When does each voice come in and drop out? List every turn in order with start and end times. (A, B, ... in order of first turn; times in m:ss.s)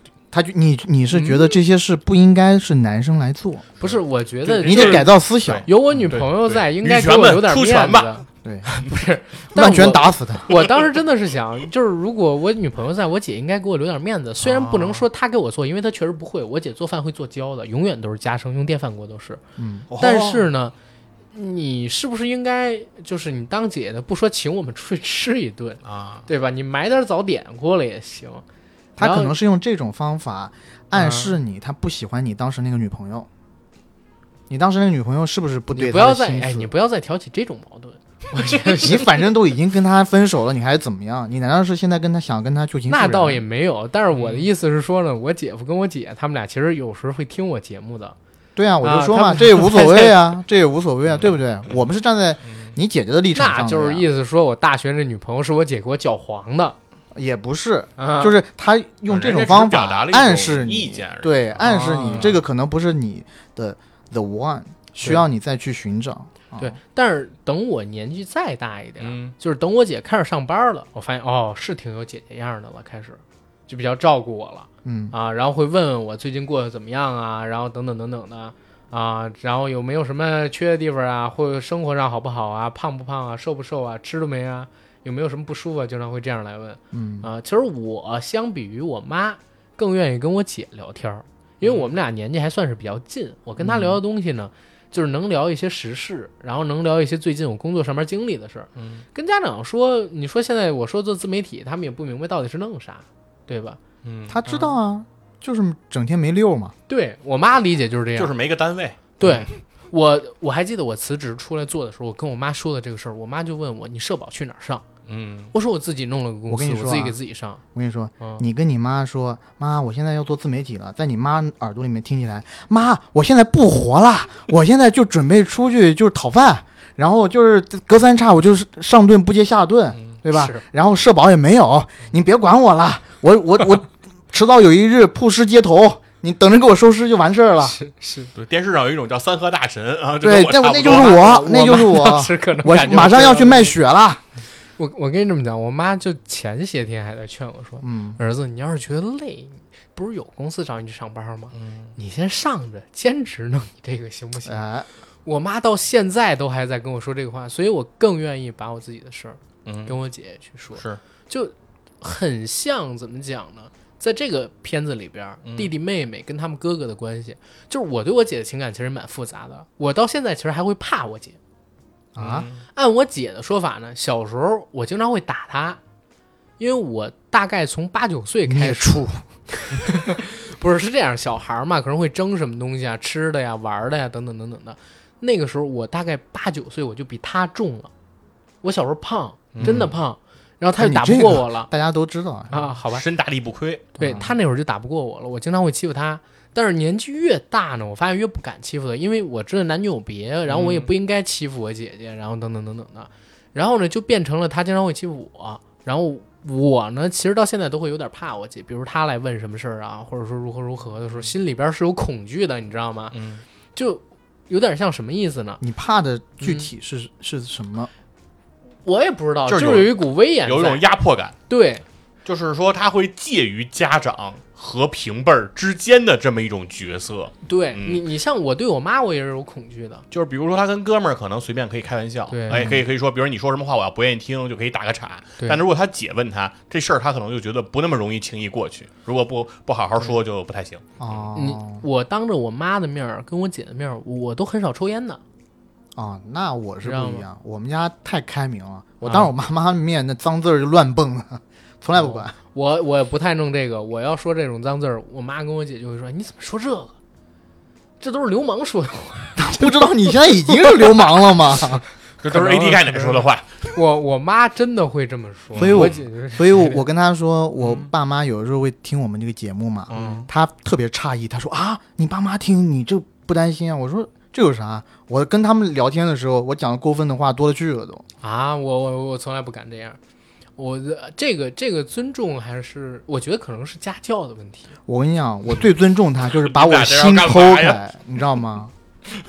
0:00.3-0:03.7 A
0:01.1-0:01.4 B
0:03.8-0:05.1 C
0:03.8-0:08.2 B
0:04.6-0:06.1 A
0:05.6-0:19.4 C
0:09.5-0:10.5 A
0:14.4-0:15.0 B
0:19.6-0:20.4 A
0:20.0-0:20.7 C
0:21.3-0:28.4 C
0:25.8-0:26.2 B
0:29.0-0:33.3 A
0:29.0-0:29.3 C
0:30.9-0:31.4 C
0:34.5-0:36.7 A
0:35.7-0:39.2 C
0:38.7-0:43.4 A
0:42.9-0:48.2 C
0:44.1-0:44.5 B
0:48.6-0:54.0 A
0:48.8-0:50.2 C
0:51.1-0:51.8 B
0:52.5-0:52.8 B
0:53.3-0:56.8 C
0:57.1-1:06.8 A
0:58.0-0:58.4 C
0:59.1-1:02.4 B
1:01.6-1:02.4 C
1:06.6-1:43.8 C
1:09.0-1:09.3 B
1:14.8-1:15.1 A
1:26.9-1:27.3 A
1:31.6-1:31.9 B
1:33.6-1:34.0 A
1:38.8-1:39.0 B
1:44.0-1:44.4 B
1:44.3-1:46.7 A
1:44.4-1:44.7 C
1:46.9-1:48.3 C
1:48.2-1:49.0 B
1:49.2-1:54.8 C
1:55.0-1:55.5 B
1:55.5-1:57.6 C
1:56.5-1:57.2 A
1:57.7-2:17.8 A
2:10.3-2:10.6 C
2:17.6-2:18.3 C
2:18.3-2:21.5 B
2:20.2-2:24.2 A
2:20.8-2:23.8 C
2:22.9-2:23.3 B
2:24.8-2:34.6 C
2:27.8-2:28.2 A
2:31.5-2:31.9 B
2:34.4-2:34.9 A
2:35.2-2:51.4 C
2:39.6-2:40.0 B
2:40.7-2:41.0 B
2:45.4-2:45.7 B
2:52.1-2:52.5 A
2:52.2-2:52.6 B
2:52.7-2:55.8 C
2:56.6-3:07.9 C
2:58.5-2:59.2 A
3:08.6-3:11.7 C
3:09.5-3:09.9 B
3:09.6-3:09.9 A
3:10.8-3:12.5 A
3:12.5-3:13.0 C
3:12.9-3:14.0 B
3:14.0-3:14.3 A
3:14.0-3:33.2 C
3:20.5-3:20.9 B
3:33.1-3:33.4 B
3:33.7-3:35.6 C
3:35.6-3:37.9 A
3:36.4-3:36.7 C
3:38.8-3:40.8 C
3:39.5-3:41.4 B
3:41.5-3:41.8 C
3:42.2-3:48.0 B
3:47.4-3:50.0 C
3:50.1-4:01.2 B
3:52.3-3:52.7 C
3:52.5-3:52.8 A
4:01.0-4:01.8 A
4:01.3-4:05.2 C
4:05.9-4:12.3 A
4:06.8-4:07.2 C
4:09.0-4:09.3 C
4:12.0-4:16.9 C
4:18.0-4:21.2 C
4:19.4-4:21.8 A
4:22.2-4:23.7 B
4:22.3-4:26.8 C
4:25.5-4:26.0 B
4:25.6-4:38.0 A
4:27.6-4:27.9 B
4:29.9-4:30.3 B
4:29.9-4:30.3 C
4:38.2-4:40.0 C
4:40.6-4:44.7 C
4:44.9-4:48.7 A
4:46.2-4:47.8 B